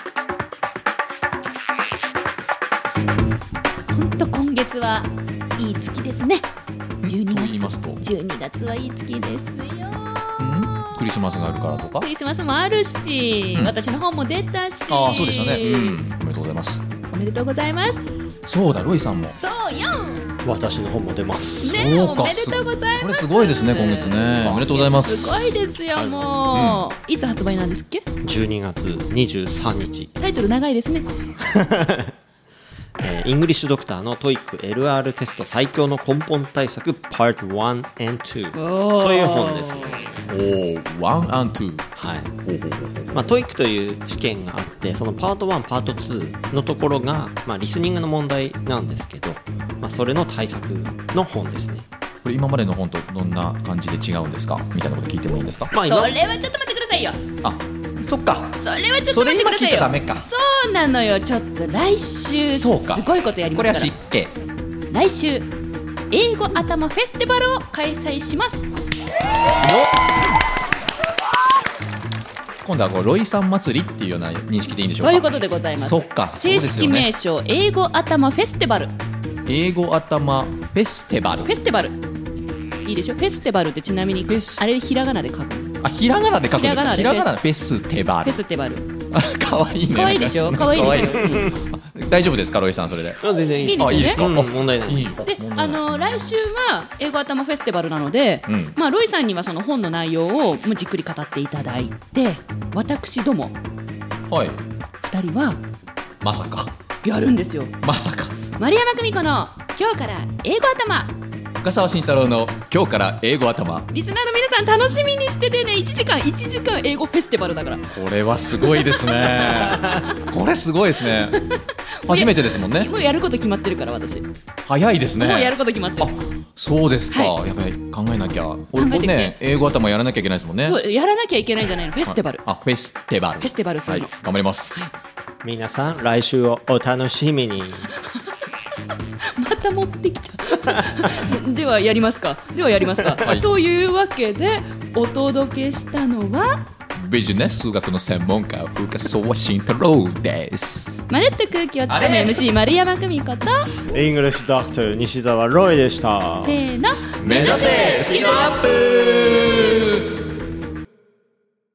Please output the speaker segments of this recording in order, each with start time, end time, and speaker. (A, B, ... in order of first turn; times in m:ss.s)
0:03.9-0:06.4 A
0:07.0-0:08.0 B
0:07.0-0:11.0 A
0:10.4-0:12.1 B
0:11.8-0:16.0 A
0:14.9-0:16.8 B
0:17.1-0:18.0 A
0:18.4-0:19.4 B
0:19.4-0:20.2 A
0:20.4-0:21.8 C
0:21.6-0:28.0 A
0:21.6-0:25.4 B
0:25.9-0:26.5 C
0:26.5-0:26.8 B
0:28.2-0:30.1 C
0:30.2-0:31.1 A
0:31.4-0:32.1 C
0:33.0-0:40.2 C
0:38.5-0:40.0 A
0:40.3-0:41.9 B
0:42.0-0:42.3 C
0:42.4-0:43.4 B
0:43.1-0:51.8 C
0:52.2-0:55.7 B
0:55.7-0:56.1 C
0:55.8-0:57.2 A
0:57.4-1:00.3 B
0:58.6-1:03.9 A
1:02.5-1:04.3 B
1:04.9-1:05.5 A
1:06.1-1:08.6 A
1:09.6-1:10.1 B
1:12.6-1:17.1 B
1:14.9-1:18.9 A
1:19.4-1:21.6 B
1:21.4-1:22.0 A
1:22.8-1:25.7 A
1:24.3-1:24.6 B
1:25.8-1:28.4 B
1:26.5-1:27.3 A
1:28.2-1:28.8 A
1:29.1-1:36.2 B
1:29.9-1:31.5 A
1:31.0-1:31.5 C
1:33.2-1:35.2 C
1:33.6-1:34.3 A
1:35.2-1:43.6 A
1:38.5-1:38.8 B
1:44.3-1:44.6 B
1:45.0-1:45.6 A
1:46.2-1:46.7 B
1:47.0-1:47.7 A
1:47.8-1:48.4 B
1:48.6-1:51.1 A
1:51.6-1:53.9 B
1:53.9-1:57.9 A
1:57.9-2:01.4 B
1:58.6-2:00.2 A
2:01.2-2:04.2 A
2:02.0-2:02.9 B
2:04.6-2:10.8 B
2:05.2-2:06.1 A
2:08.8-2:09.4 A
2:10.6-2:12.4 A
2:12.0-2:14.8 B
2:13.4-2:14.1 A
2:15.4-2:17.9 C
2:19.4-2:26.6 A
2:23.2-2:23.4 B
2:26.9-2:31.0 B
2:31.1-2:33.7 A
2:31.9-2:32.5 B
2:33.9-2:36.6 C
2:36.4-2:38.5 A
2:37.2-2:40.2 B